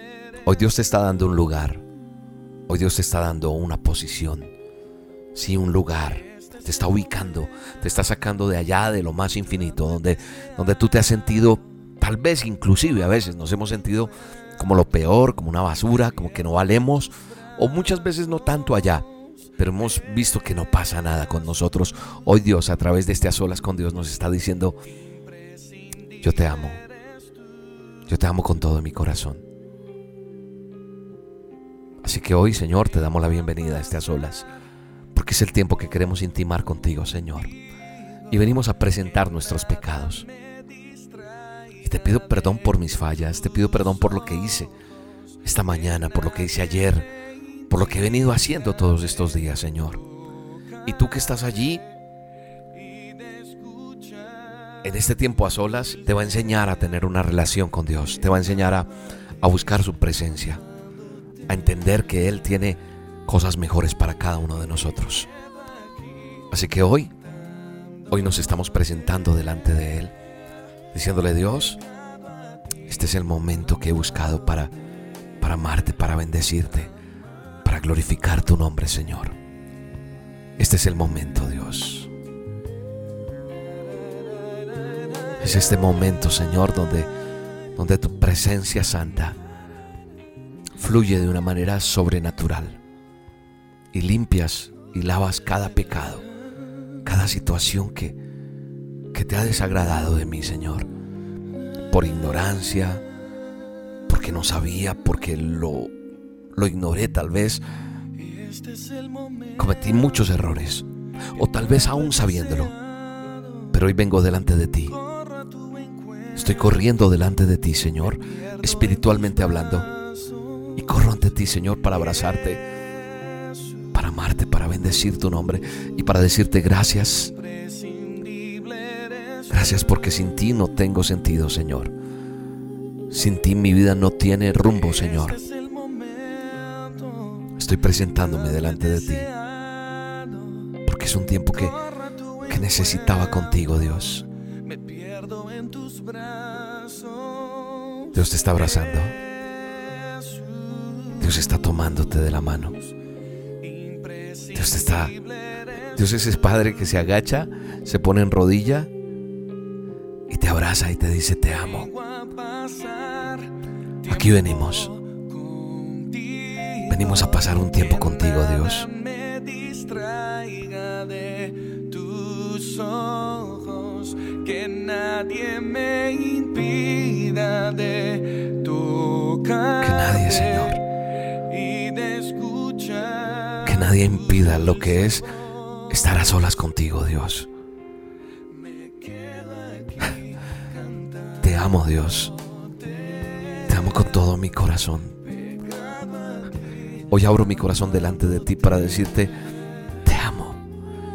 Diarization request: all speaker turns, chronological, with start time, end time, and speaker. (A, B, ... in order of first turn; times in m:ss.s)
0:00.4-0:01.8 A
0:02.7-0:04.5 A
0:05.3-0:19.1 A
0:19.6-0:24.8 A
0:26.2-0:26.8 A
0:28.1-0:29.4 A
0:32.0-0:34.5 A
0:35.1-0:37.5 A
0:38.3-0:40.3 A
0:41.8-0:44.7 A
0:45.4-0:47.1 A
0:47.7-0:50.0 A
0:50.8-0:51.8 A
0:54.8-0:58.9 A
0:59.4-1:00.6 A
1:01.5-1:05.3 A
1:06.5-1:07.1 A
1:08.1-1:10.1 A
1:10.9-1:11.8 A
1:12.9-1:14.7 A
1:15.4-1:16.9 A
1:17.6-1:19.4 A
1:20.6-1:22.1 A
1:25.4-1:27.1 A
1:27.8-1:29.4 A
1:30.8-1:32.8 A
1:33.9-1:36.3 A
1:37.0-1:38.2 A
1:39.1-1:40.9 A
1:41.9-1:43.0 A
1:44.1-1:45.9 A
1:46.6-1:47.6 A
1:49.6-1:52.7 A
1:53.7-1:55.0 A
1:56.4-1:59.9 A
2:00.8-2:02.6 A
2:03.9-2:07.3 A
2:07.9-2:08.8 B
2:09.5-2:11.9 A
2:13.1-2:15.4 A
2:15.5-2:16.2 B
2:17.6-2:19.3 A
2:20.8-2:21.8 A
2:22.5-2:24.2 A
2:24.7-2:27.1 B
2:28.1-2:29.2 A
2:31.2-2:32.8 A
2:33.6-2:34.6 B
2:34.5-2:35.2 A
2:35.9-2:38.9 A
2:40.3-2:41.9 A
2:41.9-2:43.5 B
2:44.1-2:44.9 A
2:45.3-2:46.8 B
2:46.9-2:48.9 A
2:48.8-3:00.4 B
2:59.8-3:00.8 A
3:01.5-3:03.5 B
3:03.6-3:05.3 A
3:05.9-3:07.5 A
3:08.9-3:09.9 B
3:11.4-3:12.3 A
3:13.7-3:15.2 A
3:17.1-3:19.3 A
3:20.0-3:20.6 A